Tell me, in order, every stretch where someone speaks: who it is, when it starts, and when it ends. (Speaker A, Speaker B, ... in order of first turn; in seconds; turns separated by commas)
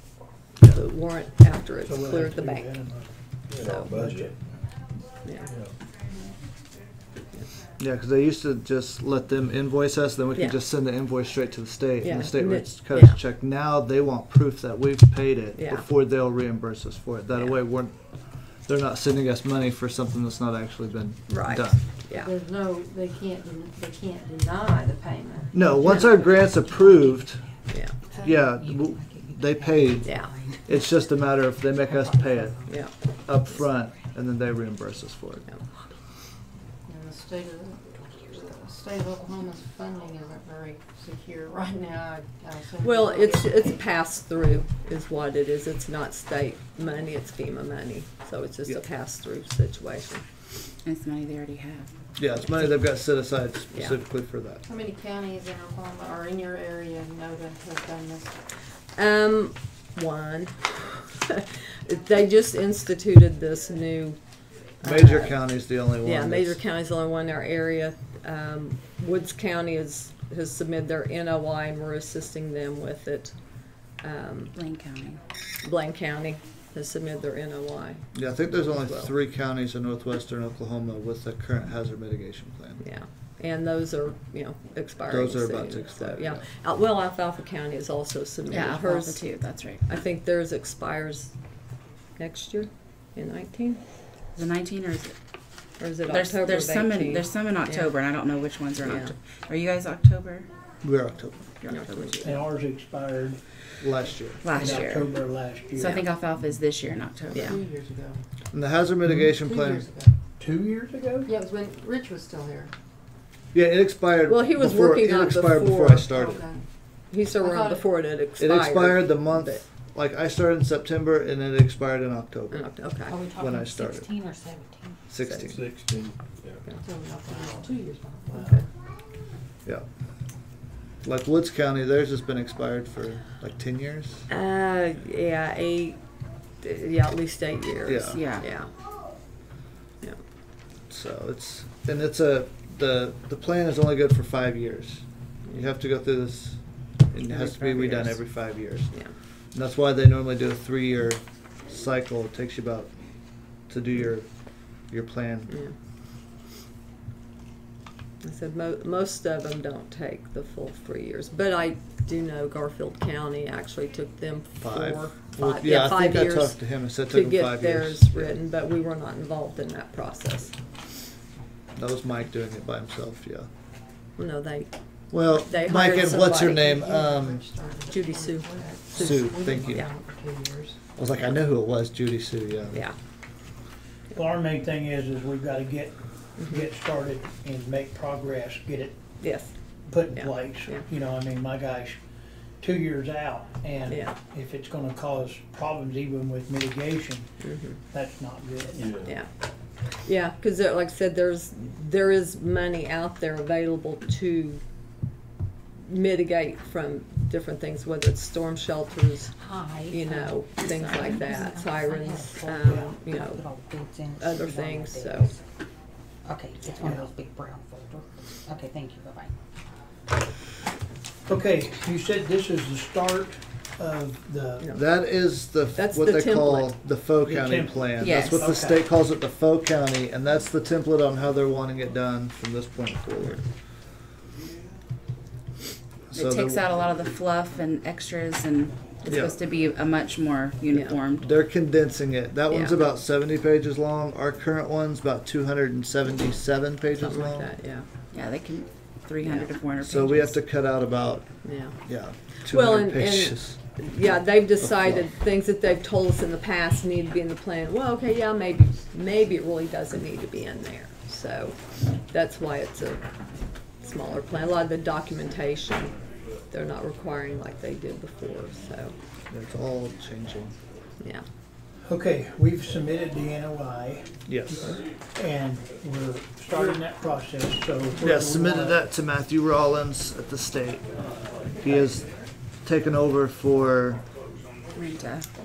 Speaker A: 0.6-2.7, Speaker B: 1.8-3.2, Speaker C: 3.5-4.3, Speaker A: 3.6-4.0, Speaker B: 4.0-4.3, Speaker A: 5.2-5.5, Speaker D: 7.8-21.8, Speaker A: 12.0-13.2, Speaker A: 15.6-15.8, Speaker A: 21.3-22.3, Speaker E: 22.2-25.6, Speaker D: 25.5-27.4, Speaker A: 25.8-26.1, Speaker F: 26.7-27.6, Speaker A: 27.7-28.0, Speaker F: 28.1-30.7, Speaker D: 28.2-32.8, Speaker A: 30.0-30.4, Speaker F: 31.9-32.6, Speaker A: 32.7-32.9, Speaker D: 33.3-35.5, Speaker E: 36.9-43.7, Speaker A: 42.8-50.2, Speaker G: 50.8-51.9, Speaker D: 52.2-54.6, Speaker E: 54.7-58.4, Speaker A: 59.0-65.4, Speaker D: 64.8-66.6, Speaker A: 66.0-74.5, Speaker G: 74.5-75.2, Speaker A: 75.6-79.1, Speaker D: 78.1-82.8, Speaker A: 82.8-89.2, Speaker D: 85.1-86.4, Speaker G: 88.5-89.9, Speaker A: 89.9-91.3, Speaker A: 92.2-93.8, Speaker G: 94.3-95.1, Speaker A: 95.8-97.9, Speaker G: 96.1-100.5, Speaker A: 98.8-99.1, Speaker D: 100.8-101.5, Speaker G: 101.6-102.4, Speaker A: 101.7-102.2, Speaker B: 102.2-103.4, Speaker D: 103.8-104.8, Speaker G: 104.4-105.2, Speaker B: 104.5-106.1, Speaker G: 105.8-107.6, Speaker A: 107.3-107.6, Speaker E: 107.3-108.2, Speaker D: 108.5-109.9, Speaker E: 109.3-110.1, Speaker B: 110.4-111.3, Speaker E: 111.2-112.7, Speaker D: 113.5-116.5, Speaker A: 114.3-116.2, Speaker E: 116.1-116.7, Speaker A: 117.1-119.6, Speaker E: 117.4-117.8, Speaker D: 118.4-124.1, Speaker A: 122.5-123.2, Speaker F: 123.1-125.1, Speaker D: 125.1-125.7, Speaker C: 125.5-126.6, Speaker E: 126.8-128.7, Speaker F: 127.3-128.1, Speaker A: 128.3-128.7, Speaker D: 131.0-134.3, Speaker A: 134.3-136.0, Speaker A: 136.6-138.7, Speaker D: 137.8-138.2, Speaker G: 138.1-138.5, Speaker D: 140.9-149.0, Speaker A: 147.3-148.0, Speaker D: 149.5-152.9, Speaker D: 153.7-155.6, Speaker A: 158.2-170.6, Speaker D: 164.6-168.4, Speaker D: 171.8-173.5, Speaker A: 174.2-174.7, Speaker D: 175.1-177.4, Speaker A: 175.2-176.8, Speaker E: 175.8-180.8, Speaker A: 177.9-179.8, Speaker D: 178.9-179.9, Speaker D: 181.0-182.8, Speaker B: 184.1-189.0, Speaker A: 186.4-186.6, Speaker A: 189.2-189.5, Speaker B: 189.9-192.0, Speaker A: 190.1-190.9, Speaker B: 192.6-197.3, Speaker A: 193.9-194.2, Speaker A: 197.4-197.8, Speaker B: 197.9-199.0, Speaker C: 198.8-199.1, Speaker A: 199.9-204.6, Speaker A: 205.8-209.3, Speaker F: 209.3-215.4, Speaker A: 209.9-213.4, Speaker A: 214.2-215.3, Speaker F: 216.2-219.3, Speaker B: 221.3-224.7, Speaker D: 224.7-233.4, Speaker A: 225.8-226.7, Speaker B: 227.2-228.8, Speaker G: 228.0-228.5, Speaker D: 236.1-236.6, Speaker G: 236.2-241.3, Speaker D: 239.1-239.4, Speaker A: 240.7-241.0, Speaker D: 241.2-247.5, Speaker A: 242.5-242.8, Speaker A: 247.0-247.9, Speaker G: 248.1-250.4, Speaker D: 249.8-255.1, Speaker A: 251.4-251.8, Speaker A: 252.4-263.1, Speaker A: 263.8-265.9, Speaker A: 266.5-268.9, Speaker D: 269.3-270.6, Speaker B: 271.8-278.8, Speaker D: 274.3-274.8, Speaker D: 278.0-284.1, Speaker G: 284.8-285.3